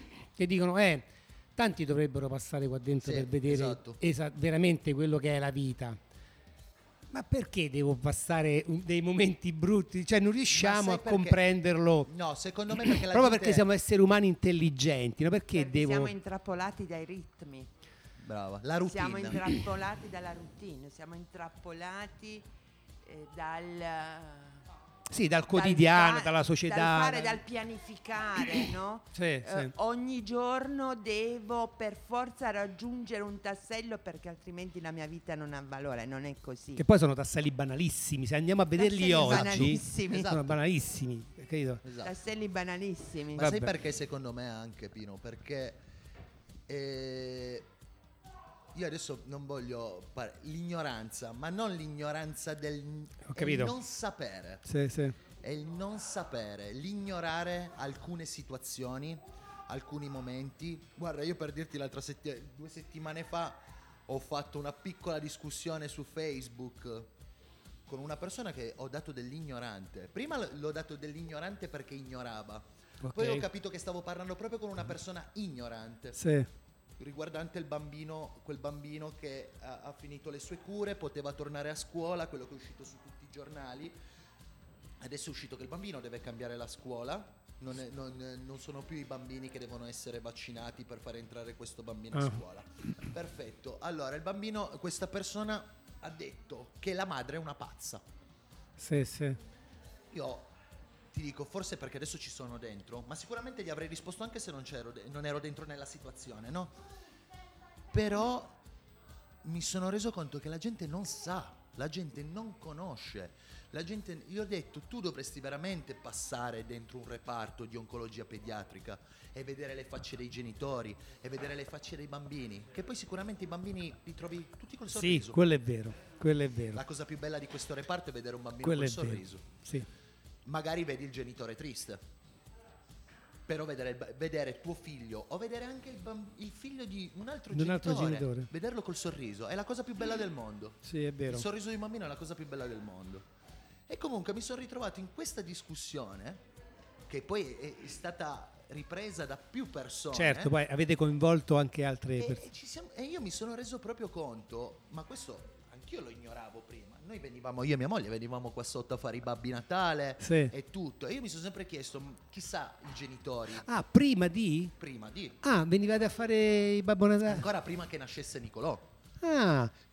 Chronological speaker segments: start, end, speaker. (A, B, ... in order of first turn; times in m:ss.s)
0:00.3-0:06.0 A
0:03.0-0:04.0 B
0:07.1-0:12.1 A
0:10.5-0:11.4 B
0:12.0-0:13.6 B
0:12.8-0:16.1 A
0:15.5-0:17.7 C
0:18.2-0:19.5 B
0:18.8-0:22.4 C
0:23.0-0:24.6 C
0:25.1-0:27.4 A
0:25.5-0:36.8 C
0:29.1-0:29.7 A
0:36.8-0:41.8 A
0:38.7-0:40.4 C
0:39.2-0:40.5 B
0:41.8-0:42.1 B
0:42.0-0:43.5 C
0:43.4-0:45.8 B
0:43.4-0:43.7 A
0:46.7-0:47.7 B
0:48.7-0:54.6 B
0:53.2-0:53.7 A
0:54.6-0:55.2 A
0:55.4-1:07.1 B
1:07.9-1:16.2 B
1:13.0-1:13.5 A
1:16.1-1:16.5 A
1:17.0-1:24.0 B
1:25.0-1:38.0 B
1:32.1-1:32.4 A
1:38.8-1:39.4 A
1:40.1-1:40.5 B
1:41.1-1:46.8 B
1:47.9-1:48.6 B
1:49.4-2:05.4 B
2:04.9-2:06.8 A
2:06.7-2:09.5 B
2:08.6-2:09.9 A
2:10.4-2:12.0 B
2:13.5-2:23.2 B
2:17.5-2:18.5 A
2:20.8-2:21.5 A
2:23.9-2:26.4 B
2:27.1-2:30.5 B
2:30.1-2:32.4 A
2:32.2-2:43.6 B
2:40.2-2:40.5 A
2:43.6-2:44.7 A
2:44.8-2:45.4 B
2:45.4-2:47.5 A
2:47.2-2:48.9 B
2:49.2-2:49.7 A